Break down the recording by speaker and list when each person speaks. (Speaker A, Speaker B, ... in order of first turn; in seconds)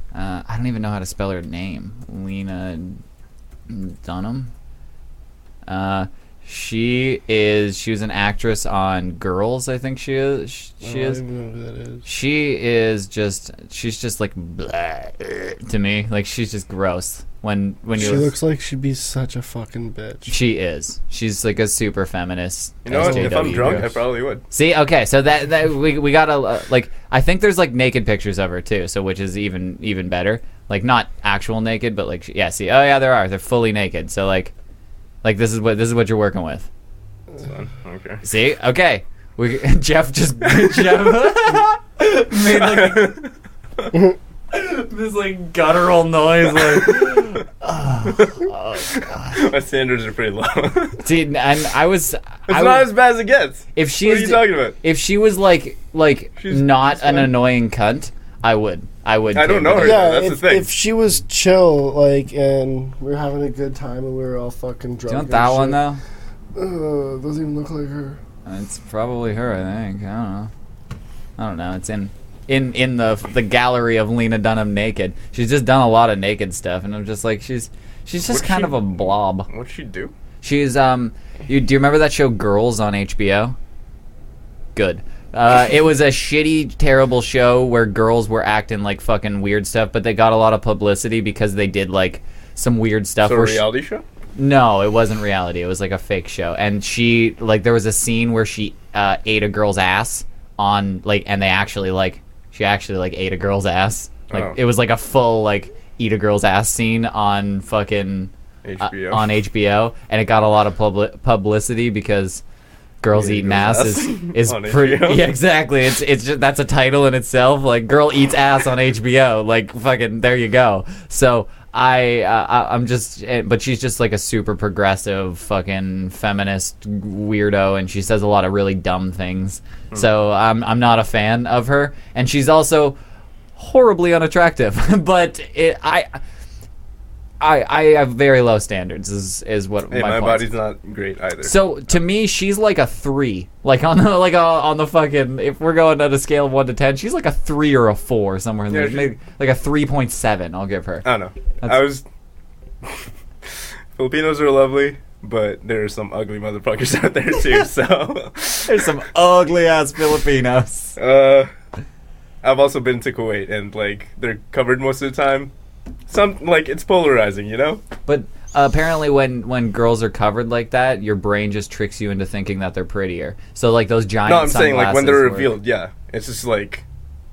Speaker A: 0.1-3.0, 3.7-4.5, 5.7-11.2, 12.1-18.3, 20.3-24.0, 24.5-34.5, 35.2-36.7, 38.2-43.2, 44.5-49.5, 51.0-52.9, 53.8-60.1, 65.1-66.0, 68.5-70.5, 71.4-79.5, 80.4-83.6, 84.8-93.6, 94.4-112.4, 113.0-133.0, 133.6-136.2, 137.4-140.5, 141.4-151.1, 158.7-161.0, 168.1-175.5
Speaker B: 10.8-12.1, 18.0-20.4, 23.0-23.8, 59.8-65.8, 66.5-68.2
Speaker C: 22.9-24.4, 37.4-38.2, 42.5-43.3, 49.0-51.0, 52.5-54.8, 56.4-57.3, 59.3-60.7, 78.3-80.1, 93.2-94.0, 104.3-104.6, 108.6-109.3, 113.1-115.2, 139.9-141.6, 148.7-149.1, 151.1-152.0, 154.0-158.8, 161.0-161.5, 162.4-165.5, 166.1-167.8, 174.3-176.8